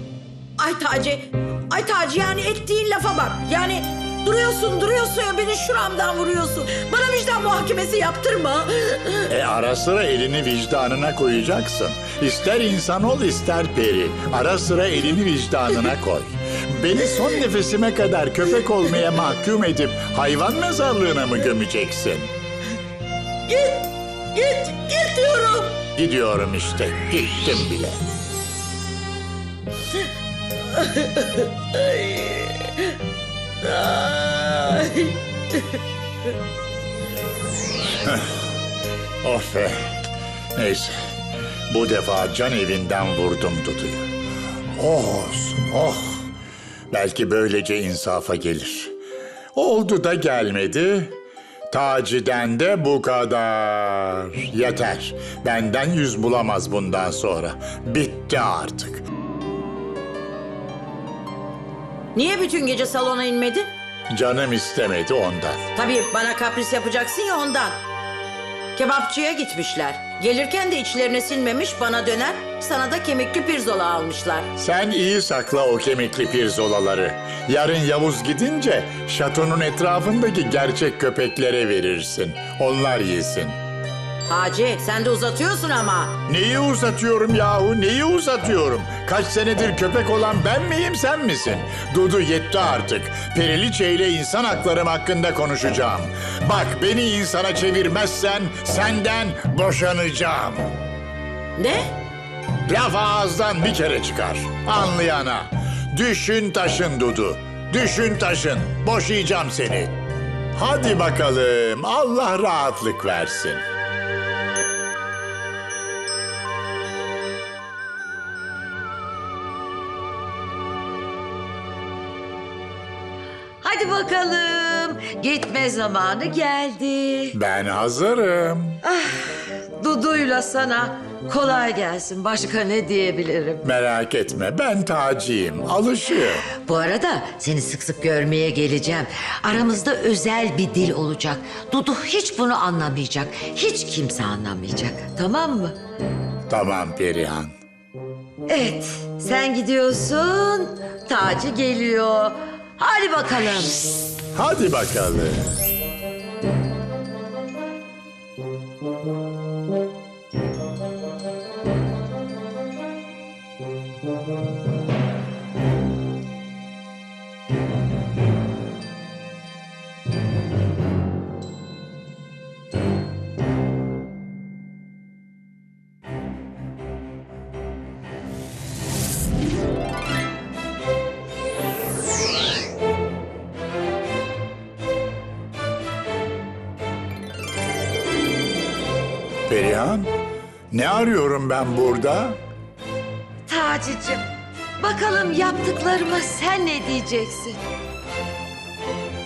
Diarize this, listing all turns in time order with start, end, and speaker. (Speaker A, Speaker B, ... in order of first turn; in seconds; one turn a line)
Speaker A: 0.6-9.3
Speaker B: 9.3-22.3
Speaker A: 23.5-25.8
Speaker B: 25.9-28.0
Speaker A: 30.7-32.9
Speaker A: 33.6-35.6
Speaker B: 38.0-38.4
Speaker B: 39.2-39.8
Speaker B: 40.5-41.0
Speaker B: 41.7-44.1
Speaker B: 44.7-46.3
Speaker B: 46.9-48.9
Speaker B: 49.5-51.2
Speaker B: 51.7-59.0
Speaker A: 62.1-63.7
Speaker B: 64.1-65.6
Speaker A: 65.7-67.8
Speaker A: 68.7-74.5
Speaker B: 74.5-83.6
Speaker A: 84.3-86.2
Speaker B: 86.2-100.7
Speaker A: 101.6-101.9
Speaker B: 102.7-110.0
Speaker B: 110.5-113.6
Speaker C: 123.6-127.3
Speaker B: 127.3-128.8
Speaker C: 128.8-133.6
Speaker B: 133.6-136.5
Speaker C: 136.6-145.7
Speaker B: 146.5-147.6
Speaker C: 148.5-153.8
Speaker B: 154.3-155.5
Speaker B: 189.5-190.1
Speaker B: 190.7-192.4
Speaker C: 193.5-194.2
Speaker C: 194.8-197.6